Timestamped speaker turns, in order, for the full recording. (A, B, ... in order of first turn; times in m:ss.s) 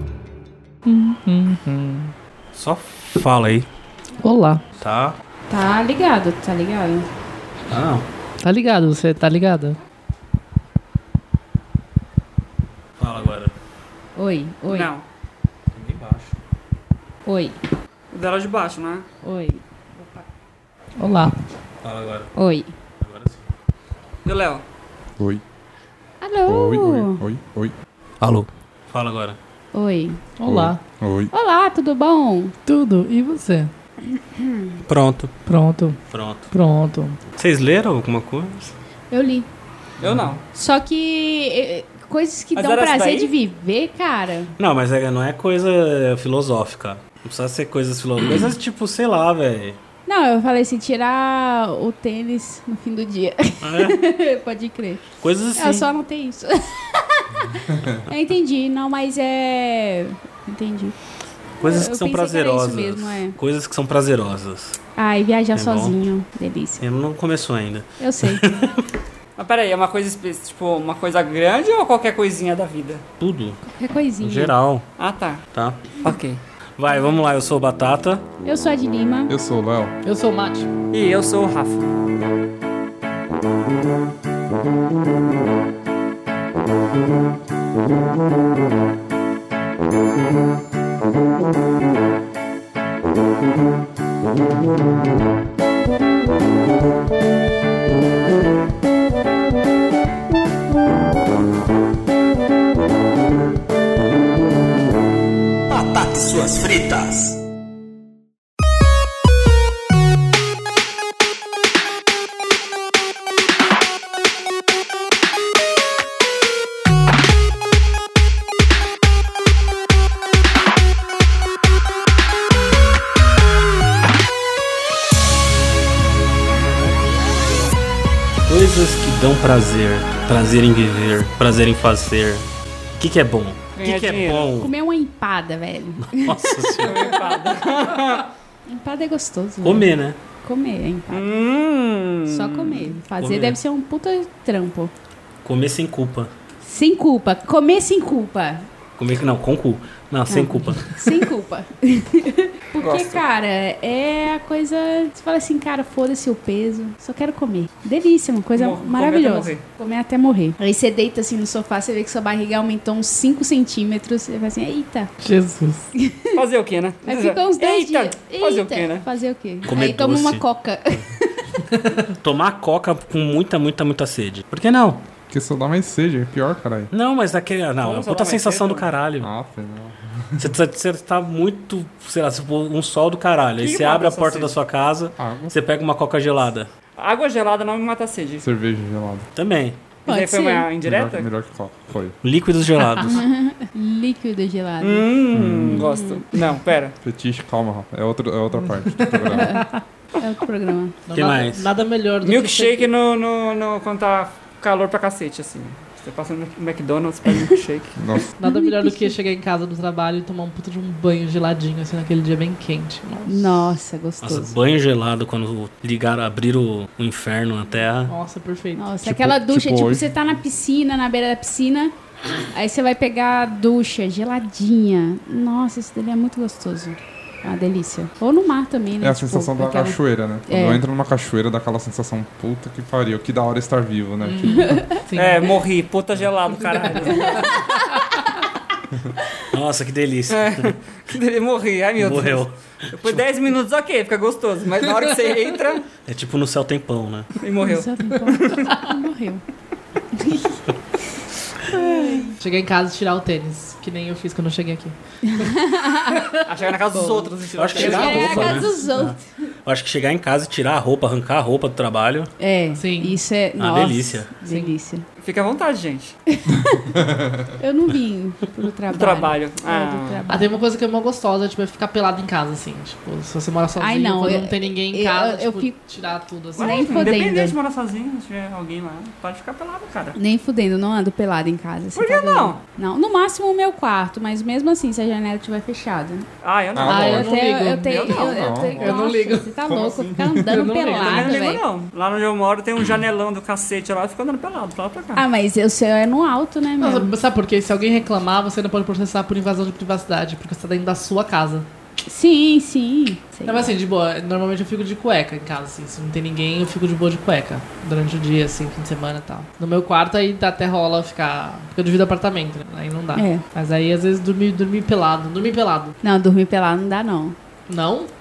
0:00.8-0:02.1 A
0:02.5-0:03.7 B
0:04.2-0:04.6 A
0:04.8-0:05.2 B
0:05.5-0:07.1 C
0:07.7-0:08.0 B
0:08.4-0:09.8 A
0:13.0-0:13.5 B
0:14.2-0:14.9 C
0:14.7-0:15.0 D
0:15.7-0:16.3 B
0:17.2-0:17.6 C
0:18.1-0:19.0 D
0:19.2-0:20.2 C
0:21.0-0:21.3 A
0:21.8-0:22.3 B
0:22.3-0:22.7 C
0:23.0-0:23.4 B
0:24.2-0:24.6 D
0:26.2-0:27.2 C
0:26.4-0:27.7 E
0:28.2-0:29.4 B
0:29.7-0:30.2 C
0:30.4-0:30.8 A
0:30.4-0:31.3 E
0:31.3-0:32.5 C
0:32.6-0:33.7 A
0:34.1-0:34.8 C
0:34.9-0:35.3 B
0:35.5-0:36.0 A
0:36.1-0:36.5 B
0:36.5-0:37.2 A
0:37.3-0:38.7 B
0:39.1-0:39.5 C
0:40.0-0:40.4 D
0:40.5-0:44.5 C
0:42.5-0:43.3 D
0:44.6-0:49.8 B
0:50.1-1:01.0 C
0:53.6-0:54.0 B
0:55.2-0:55.9 B
1:01.6-1:03.4 C
1:01.6-1:04.8 B
1:05.0-1:06.8 C
1:05.5-1:05.9 B
1:06.8-1:08.8 B
1:08.0-1:08.5 C
1:09.4-1:13.0 D
1:13.2-1:13.6 B
1:13.6-1:14.5 C
1:14.2-1:14.8 B
1:15.0-1:15.4 D
1:15.5-1:15.8 B
1:16.0-1:16.4 D
1:16.8-1:18.2 B
1:18.4-1:19.3 C
1:19.3-1:19.9 E
1:20.0-1:20.7 A
1:20.9-1:21.9 D
1:45.7-1:47.4 B
2:08.5-2:12.4 B
2:13.0-2:14.7 B
2:13.8-2:14.5 D
2:14.6-2:16.7 C
2:16.1-2:17.1 B
2:16.8-2:18.3 D
2:18.7-2:19.9 C
2:19.6-2:20.2 B
2:20.4-2:21.3 C
2:21.1-2:22.9 D
2:22.3-2:24.9 C
2:23.2-2:23.6 B
2:25.4-2:26.3 B
2:26.6-2:28.6 C
2:29.0-2:31.0 B
2:30.3-2:45.1 C
2:32.8-2:33.2 D
2:38.6-2:39.6 D
2:45.2-2:45.9 A
2:46.0-2:46.4 C
2:46.3-2:49.0 D
2:47.0-2:51.3 C
2:49.6-2:50.4 B
2:51.7-2:52.1 A
2:52.2-2:55.0 B
2:55.3-2:56.9 E
2:56.9-2:59.3 B
2:57.8-2:58.9 D
2:59.2-3:00.5 E
3:00.4-3:06.7 B
3:03.6-3:04.5 D
3:05.2-3:05.5 E
3:07.0-3:08.4 D
3:08.4-3:09.3 E
3:09.3-3:09.8 B
3:10.0-3:10.7 C
3:10.0-3:11.3 D
3:10.8-3:12.2 E
3:12.2-3:13.2 B
3:13.0-3:15.1 C
3:14.8-3:17.0 D
3:15.3-3:15.9 E
3:15.7-3:16.2 C
3:17.0-3:19.6 E
3:19.0-3:19.8 A
3:19.3-3:20.9 C
3:21.1-3:22.9 A
3:21.1-3:21.7 B
3:22.2-3:28.0 D
3:28.0-3:28.2 E
3:28.4-3:33.6 A
3:28.4-3:29.2 C
3:33.2-3:34.5 C
3:34.2-3:38.1 B
3:38.1-3:38.9 A
3:38.7-3:41.9 C
3:39.0-3:40.2 E
3:42.5-3:50.8 C
3:49.0-3:54.8 E
3:54.2-3:55.5 A
3:54.5-3:54.9 C
3:55.1-3:57.6 D
3:56.7-3:57.7 A
3:56.9-3:58.0 C
3:59.5-4:00.7 B
4:00.3-4:05.8 D
4:02.0-4:02.5 B
4:06.0-4:07.3 B
4:07.4-4:08.8 D
4:07.6-4:09.4 C
4:10.1-4:10.6 C
4:11.7-4:12.4 C
4:11.7-4:15.5 A
4:15.2-4:16.4 C
4:16.4-4:18.7 D
4:16.9-4:19.3 C
4:17.6-4:19.1 B
4:17.8-4:18.8 A
4:19.6-4:22.3 B
4:22.4-4:25.0 C
4:22.7-4:23.2 A
4:23.6-4:24.3 B
4:24.4-4:24.7 A
4:25.2-4:26.2 D
4:26.3-4:26.9 C
4:26.7-4:27.5 E
4:27.6-4:30.5 C
4:28.9-4:30.2 D
4:30.3-4:37.2 A
4:33.8-4:35.8 C
4:36.6-4:40.2 D
4:36.6-4:37.6 C
4:40.2-4:46.3 C
4:42.0-4:42.6 D
4:46.4-4:49.1 D
4:46.7-4:47.3 E
4:46.8-4:49.6 A
4:47.0-4:51.6 C
4:48.2-4:48.9 E
4:49.6-4:50.6 E
4:50.4-4:51.5 A
4:51.0-4:55.2 D
4:55.1-4:57.1 C
4:56.8-5:01.7 A
5:02.1-5:03.7 C
5:03.4-5:16.0 A
5:13.1-5:13.4 C
5:16.0-5:17.4 C
5:17.7-5:18.1 A